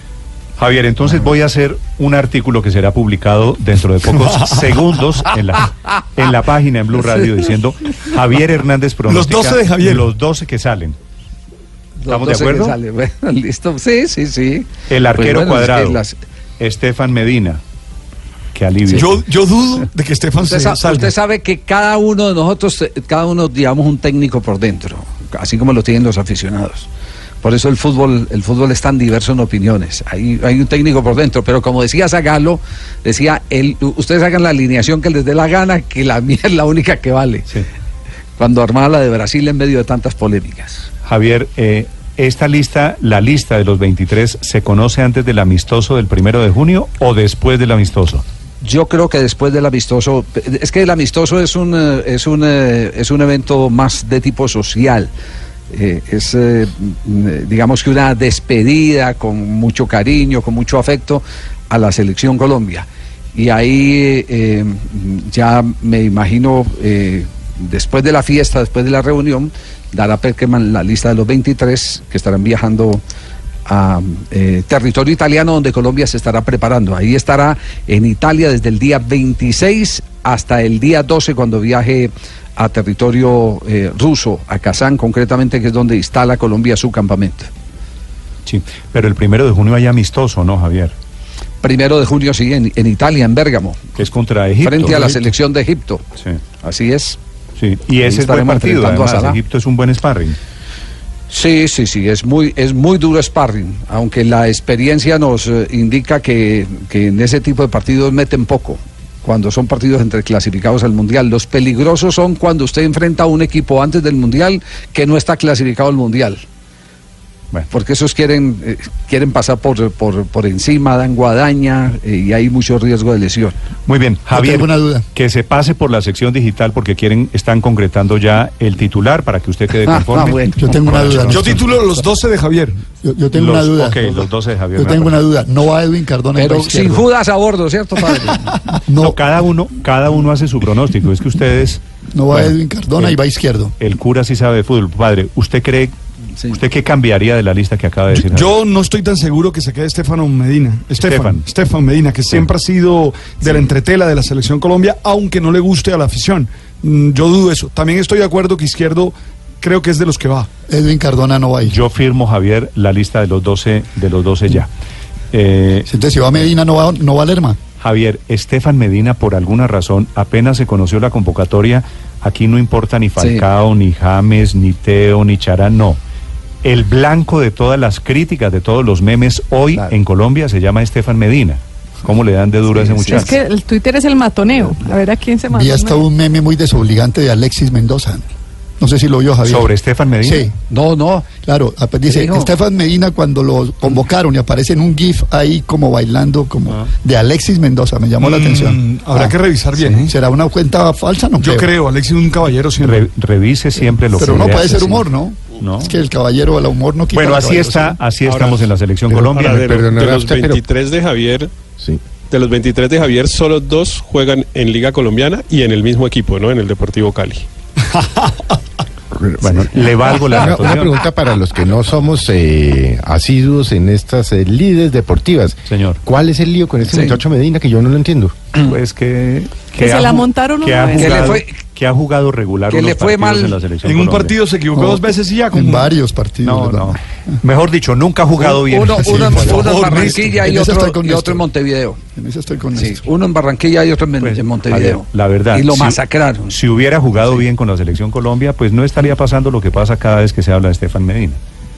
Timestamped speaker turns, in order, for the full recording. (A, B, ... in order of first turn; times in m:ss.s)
0:00.6-0:11.0 A
0:09.0-0:10.1 B
0:12.0-0:16.2 C
0:12.1-0:12.8 A
0:14.9-0:16.0 A
0:16.6-0:17.6 A
0:18.5-0:19.2 A
0:18.9-0:21.2 B
0:20.4-0:26.9 C
0:27.4-0:37.5 C
0:38.4-0:40.9 C
0:41.1-0:48.2 A
0:48.6-0:55.1 C
0:55.7-1:13.0 C
1:13.7-1:27.5 C
1:28.4-1:30.9 A
1:31.6-1:33.9 C
1:34.0-1:35.0 A
1:34.6-1:36.0 C
1:34.8-1:35.3 D
1:36.6-1:37.2 C
1:37.6-1:40.4 A
1:38.0-1:39.4 C
1:41.3-1:56.4 C
1:57.7-2:03.6 C
2:03.9-2:11.7 A
2:04.3-2:05.1 D
2:09.8-2:11.2 C
2:10.6-2:11.5 D
2:11.3-2:12.9 B
2:13.0-2:17.1 D
2:13.3-2:15.2 A
2:16.4-2:18.5 C
2:18.5-2:19.2 D
2:19.0-2:23.2 A
2:22.1-2:23.8 D
2:23.8-2:25.9 A
2:26.5-2:28.6 A
2:28.1-2:40.5 B
2:31.0-2:31.5 A
2:40.7-2:41.8 D
2:41.6-2:44.7 A
2:45.3-2:45.9 A
2:45.9-2:47.6 D
2:47.8-2:56.0 A
2:53.2-2:53.4 C
2:56.6-3:03.3 A
3:02.7-3:03.3 C
3:03.1-3:06.0 E
3:05.5-3:08.3 D
3:08.8-3:10.5 D
3:09.4-3:10.5 A
3:10.7-3:11.4 C
3:11.4-3:21.7 D
3:12.1-3:12.5 C
3:18.2-3:20.1 B
3:21.4-3:23.1 B
3:22.8-3:25.1 A
3:24.1-3:28.0 D
3:25.6-3:26.0 A
3:27.1-3:29.9 A
3:28.3-3:31.5 F
3:29.8-3:30.6 G
3:32.2-3:37.5 F
3:37.9-3:38.5 B
3:39.1-3:48.4 G
3:39.4-3:41.0 A
3:45.7-3:46.0 A
3:46.9-3:47.2 C
3:48.6-3:54.4 A
3:49.8-3:51.4 E
3:51.0-3:51.5 C
3:52.7-3:53.6 C
3:53.8-3:55.9 B
3:55.5-3:57.0 D
3:56.4-3:59.8 A
3:58.4-4:02.0 C
3:59.0-4:01.5 D
3:59.5-4:00.3 B
4:02.1-4:03.0 D
4:02.8-4:06.6 C
4:04.2-4:11.4 A